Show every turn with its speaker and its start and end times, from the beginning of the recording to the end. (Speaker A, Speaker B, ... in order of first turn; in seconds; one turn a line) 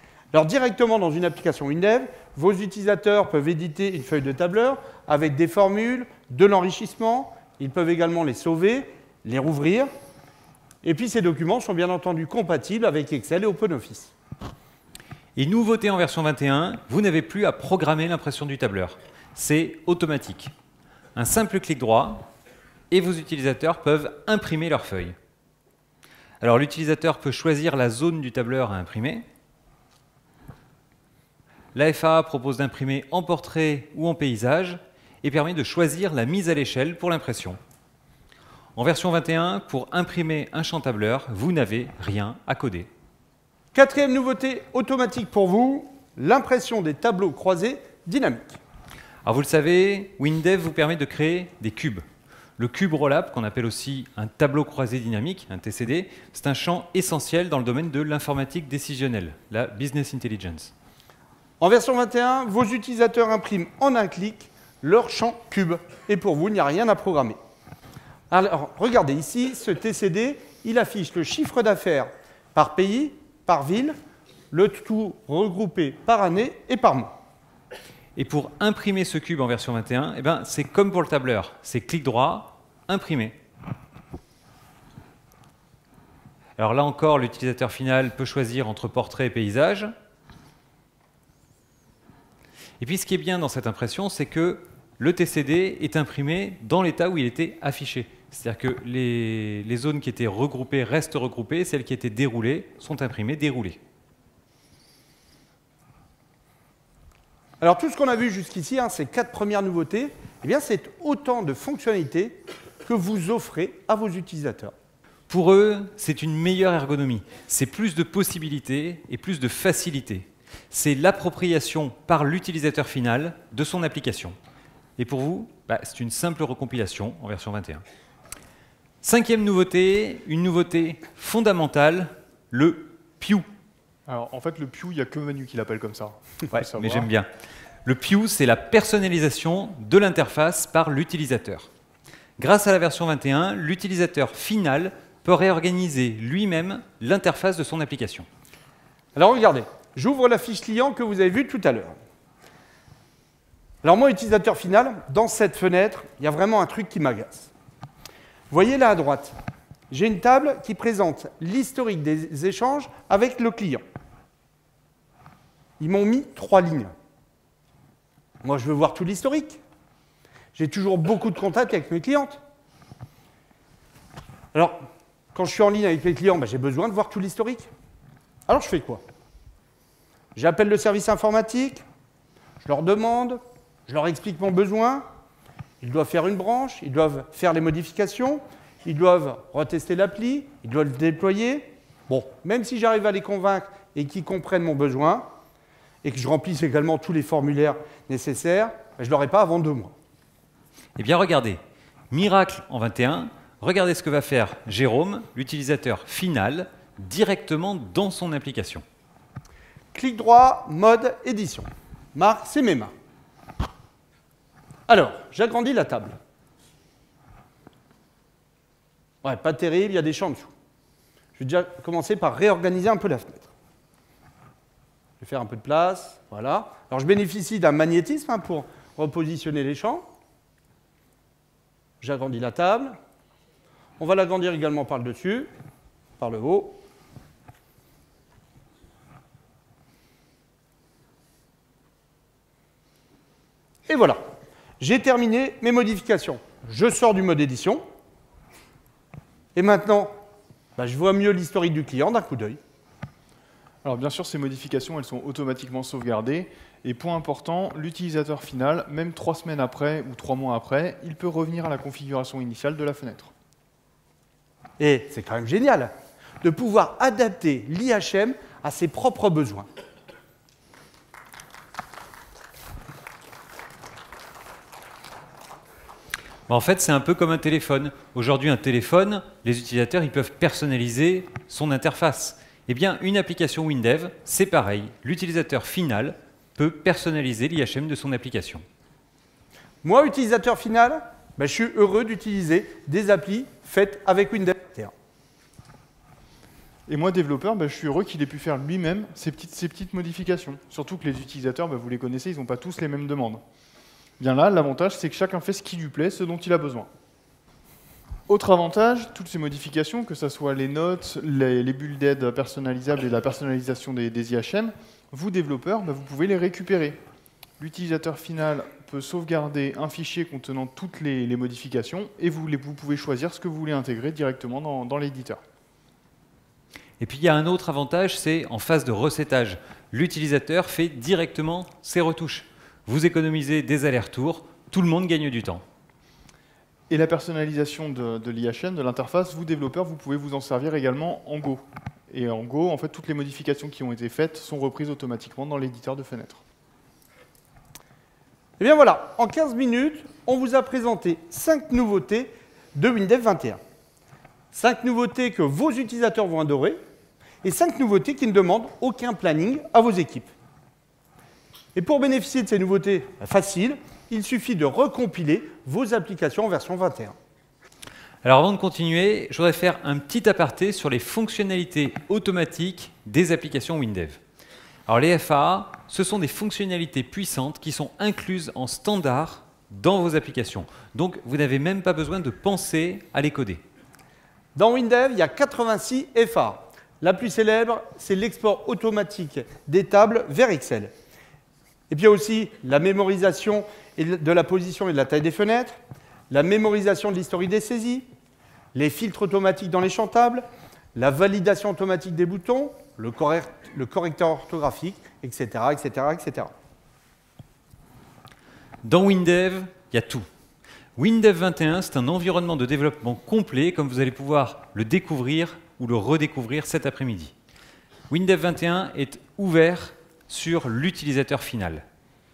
Speaker A: 0.3-9.9
Speaker A: 10.8-14.1
Speaker B: 15.4-20.5
Speaker B: 21.1-22.3
Speaker B: 22.9-25.1
Speaker B: 26.4-29.2
Speaker B: 31.7-37.6
Speaker B: 38.8-42.9
Speaker A: 43.7-48.6
Speaker B: 49.2-52.0
Speaker B: 52.6-60.7
Speaker A: 61.6-67.4
Speaker A: 68.3-74.0
Speaker A: 74.5-77.1
Speaker B: 78.2-83.4
Speaker B: 86.6-89.9
Speaker B: 92.8-103.8
Speaker A: 107.6-114.7
Speaker B: 115.3-124.4
Speaker B: 125.0-127.8
Speaker B: 129.0-133.5
Speaker C: 134.1-137.1
Speaker B: 136.5-137.3
Speaker B: 137.8-141.7
Speaker B: 142.4-148.3
Speaker A: 149.2-151.9
Speaker A: 153.8-157.5
Speaker A: 158.5-159.4
Speaker A: 159.9-163.8
Speaker A: 165.8-166.9
Speaker A: 168.4-169.6
Speaker A: 170.5-172.4
Speaker A: 175.3-177.7
Speaker A: 178.5-179.0
Speaker A: 180.3-181.8
Speaker A: 182.6-185.1
Speaker A: 185.8-195.3
Speaker A: 196.0-199.9
Speaker B: 201.0-208.8
Speaker A: 209.9-212.9
Speaker A: 214.9-216.2
Speaker A: 219.2-220.5
Speaker A: 221.4-223.5
Speaker A: 225.2-230.1
Speaker A: 232.0-233.0
Speaker A: 234.0-235.5
Speaker A: 236.2-236.8
Speaker A: 243.9-244.2
Speaker A: 244.8-247.8
Speaker A: 249.6-250.1
Speaker A: 250.8-252.6
Speaker C: 253.8-263.3
Speaker A: 264.8-269.7
Speaker B: 276.5-288.6
Speaker A: 289.8-294.9
Speaker C: 296.9-303.4
Speaker C: 304.2-306.9
Speaker C: 308.3-317.0
Speaker C: 317.6-325.4
Speaker B: 327.0-335.6
Speaker C: 336.9-346.4
Speaker A: 348.6-353.6
Speaker A: 354.5-356.8
Speaker A: 357.4-360.3
Speaker A: 361.8-367.1
Speaker B: 368.2-374.2
Speaker B: 374.9-383.6
Speaker A: 384.6-390.9
Speaker A: 391.9-395.8
Speaker A: 396.3-398.1
Speaker A: 398.7-406.5
Speaker B: 408.8-410.2
Speaker B: 411.0-417.3
Speaker B: 418.1-421.8